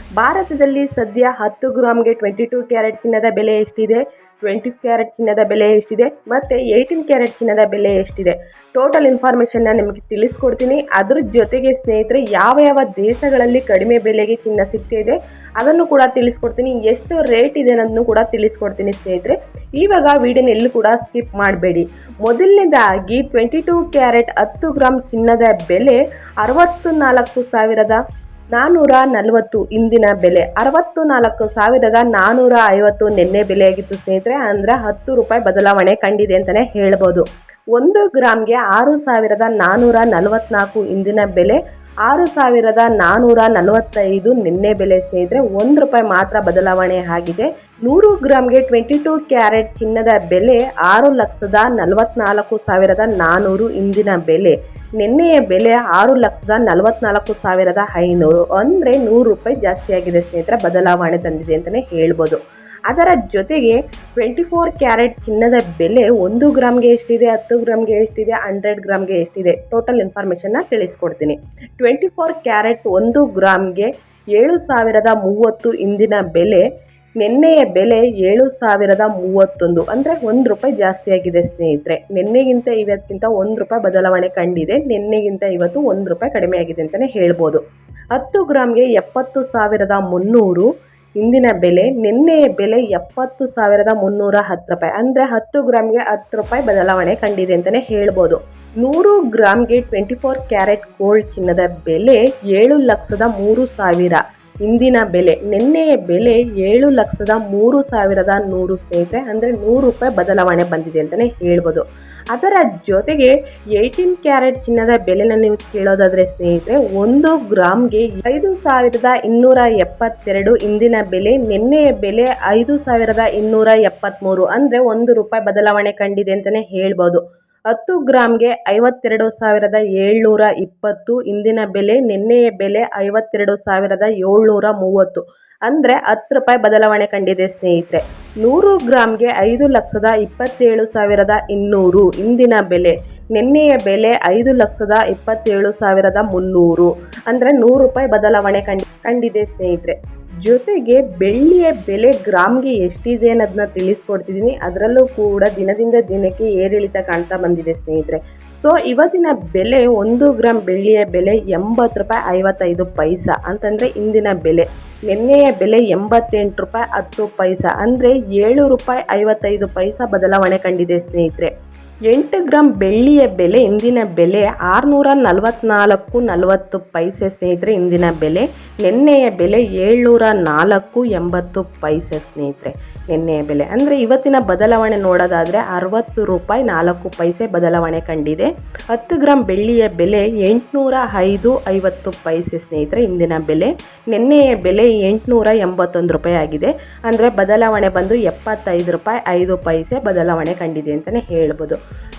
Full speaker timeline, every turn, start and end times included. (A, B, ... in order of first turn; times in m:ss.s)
0:00.2-0:28.0 A
0:28.5-1:16.6 A
1:17.2-1:27.6 A
1:28.1-1:30.7 A
1:31.2-2:51.5 A
2:52.1-3:21.8 A